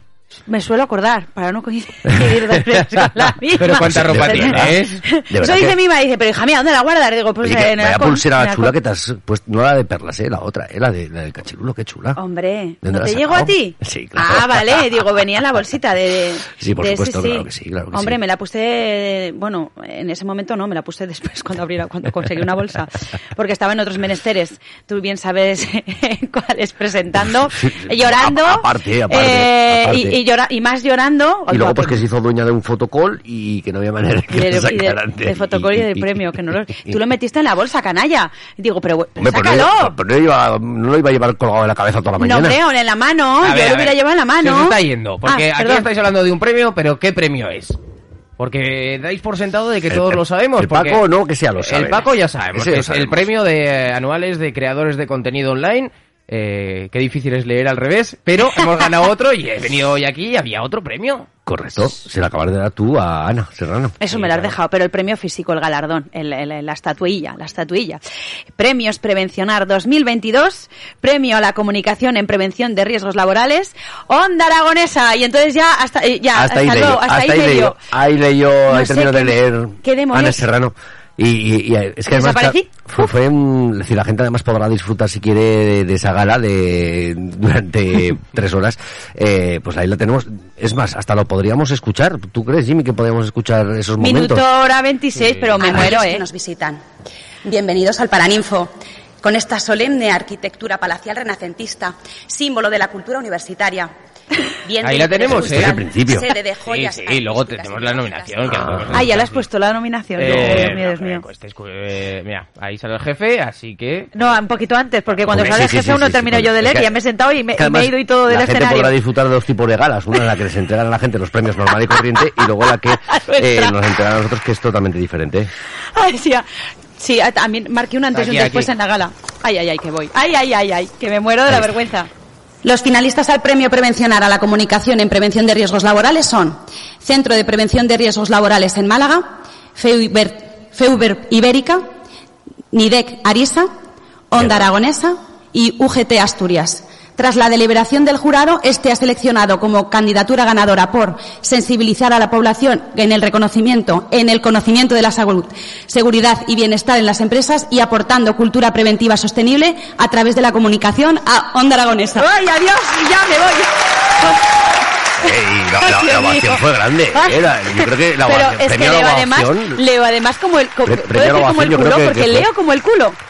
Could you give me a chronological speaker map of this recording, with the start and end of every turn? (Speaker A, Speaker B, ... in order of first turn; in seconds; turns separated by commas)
Speaker A: 0.5-8.8, Speaker B: 2.0-5.8, Speaker C: 3.6-5.0, Speaker B: 7.4-12.2, Speaker A: 12.1-32.0, Speaker B: 12.8-15.0, Speaker B: 16.5-18.2, Speaker B: 27.4-30.2, Speaker B: 31.5-37.0, Speaker A: 34.3-39.9, Speaker B: 39.2-42.6, Speaker A: 42.2-45.9, Speaker C: 43.4-47.8, Speaker C: 48.4-51.0, Speaker B: 49.9-53.2, Speaker C: 51.6-61.3, Speaker B: 61.5-64.0, Speaker A: 64.0-68.0, Speaker C: 64.1-64.5, Speaker A: 68.6-77.8, Speaker B: 76.3-94.4, Speaker A: 78.7-80.4, Speaker A: 82.1-83.1, Speaker A: 94.0-96.3, Speaker C: 95.2-95.5, Speaker D: 95.6-96.8, Speaker D: 97.4-103.9, Speaker A: 104.8-111.2, Speaker C: 104.8-105.8, Speaker B: 105.2-106.3, Speaker C: 106.6-109.4, Speaker B: 108.5-109.1, Speaker C: 110.2-114.4, Speaker A: 114.1-118.9, Speaker B: 115.3-117.0, Speaker B: 117.5-125.5, Speaker A: 123.1-123.7, Speaker A: 125.9-132.1, Speaker C: 128.1-128.7, Speaker D: 132.6-141.8, Speaker D: 142.7-143.7, Speaker D: 144.3-162.3, Speaker A: 162.2-164.4, Speaker B: 165.2-169.8, Speaker A: 165.8-173.2, Speaker B: 170.8-172.5